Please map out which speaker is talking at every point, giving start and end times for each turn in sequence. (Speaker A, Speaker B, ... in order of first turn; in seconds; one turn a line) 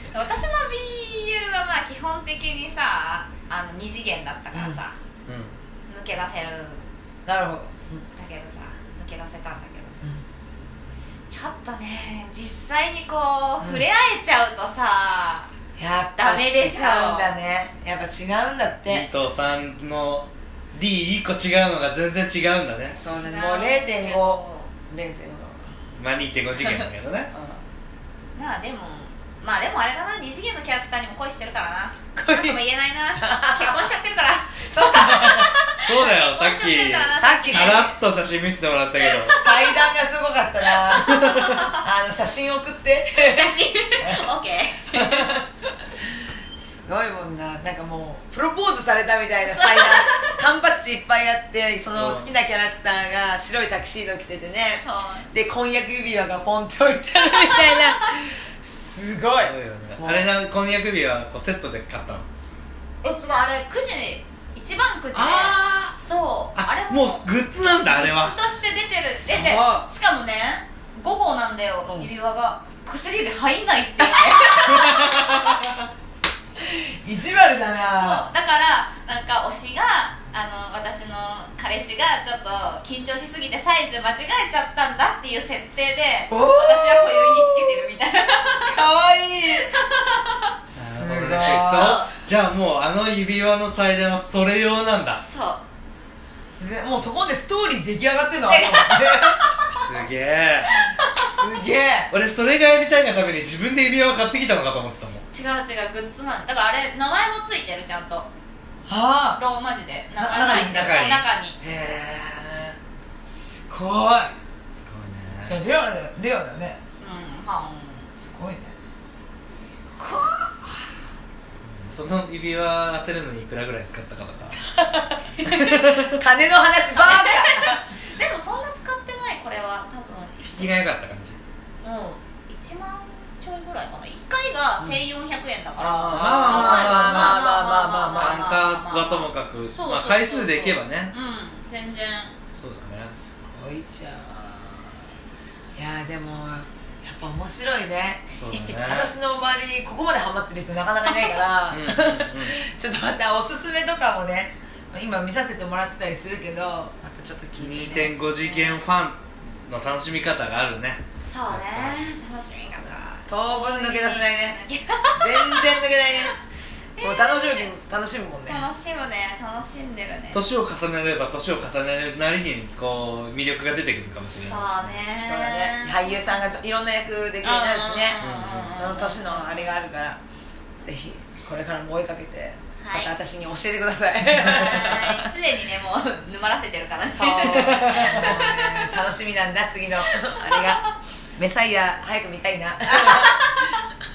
Speaker A: 0.1-5.0
Speaker B: 4.5-4.8
Speaker C: 5.3-5.5
Speaker A: 5.9-6.9
Speaker B: 7.3-8.1
Speaker A: 8.1-10.0
Speaker A: 11.3-15.5
Speaker B: 13.6-13.8
Speaker B: 15.8-19.1
Speaker A: 16.2-17.3
Speaker C: 18.9-23.0
Speaker B: 22.9-25.7
Speaker A: 23.0-24.7
Speaker C: 25.9-27.3
Speaker B: 27.3-27.6
Speaker A: 28.4-37.9
Speaker B: 32.2-32.6
Speaker B: 33.2-33.9
Speaker B: 34.7-35.5
Speaker C: 35.0-39.4
Speaker B: 37.2-37.9
Speaker A: 39.1-39.7
Speaker B: 39.3-44.3
Speaker A: 41.0-41.8
Speaker C: 41.1-41.5
Speaker A: 43.2-45.3
Speaker B: 44.9-45.5
Speaker B: 46.0-60.3
Speaker A: 49.5-50.4
Speaker C: 52.0-52.3
Speaker A: 54.8-55.3
Speaker C: 59.4-62.2
Speaker A: 63.0-67.2
Speaker C: 65.2-66.0
Speaker C: 66.6-68.3
Speaker A: 67.8-75.4
Speaker B: 69.2-69.9
Speaker C: 74.7-75.7
Speaker B: 76.6-78.3
Speaker A: 77.9-88.8
Speaker B: 86.3-87.9
Speaker B: 88.7-89.7
Speaker A: 89.7-90.5
Speaker B: 90.8-92.0
Speaker C: 90.8-95.2
Speaker A: 91.4-92.1
Speaker A: 95.2-95.6
Speaker B: 96.6-99.6
Speaker A: 98.5-99.3
Speaker C: 99.7-100.7
Speaker A: 100.7-101.3
Speaker B: 101.2-102.1
Speaker C: 102.1-105.2
Speaker A: 105.3-108.3
Speaker B: 108.9-109.4
Speaker A: 109.4-111.6
Speaker B: 110.2-111.1
Speaker C: 110.3-112.8
Speaker B: 113.3-114.3
Speaker C: 114.7-115.6
Speaker B: 115.4-116.8
Speaker A: 117.0-118.1
Speaker B: 118.2-118.8
Speaker B: 120.0-120.6
Speaker C: 121.5-124.6
Speaker B: 124.6-127.8
Speaker C: 125.4-126.2
Speaker A: 127.0-130.8
Speaker C: 130.4-131.4
Speaker A: 131.8-142.3
Speaker B: 135.8-138.4
Speaker C: 136.1-137.4
Speaker C: 138.1-141.1
Speaker C: 142.6-143.1
Speaker B: 143.1-144.8
Speaker B: 145.8-158.7
Speaker C: 148.4-149.1
Speaker C: 151.7-152.6
Speaker C: 157.6-162.0
Speaker A: 161.2-165.8
Speaker B: 163.3-164.6
Speaker B: 165.2-166.3
Speaker A: 166.9-167.7
Speaker B: 167.0-168.7
Speaker A: 168.5-170.4
Speaker C: 170.3-175.0
Speaker A: 174.3-176.4
Speaker B: 175.2-180.2
Speaker A: 177.4-179.7
Speaker C: 178.2-178.9
Speaker B: 180.8-185.3
Speaker A: 182.8-183.1
Speaker A: 184.3-189.0
Speaker B: 187.1-190.8
Speaker C: 187.5-188.4
Speaker A: 190.2-190.8
Speaker B: 191.4-193.6
Speaker A: 193.1-193.7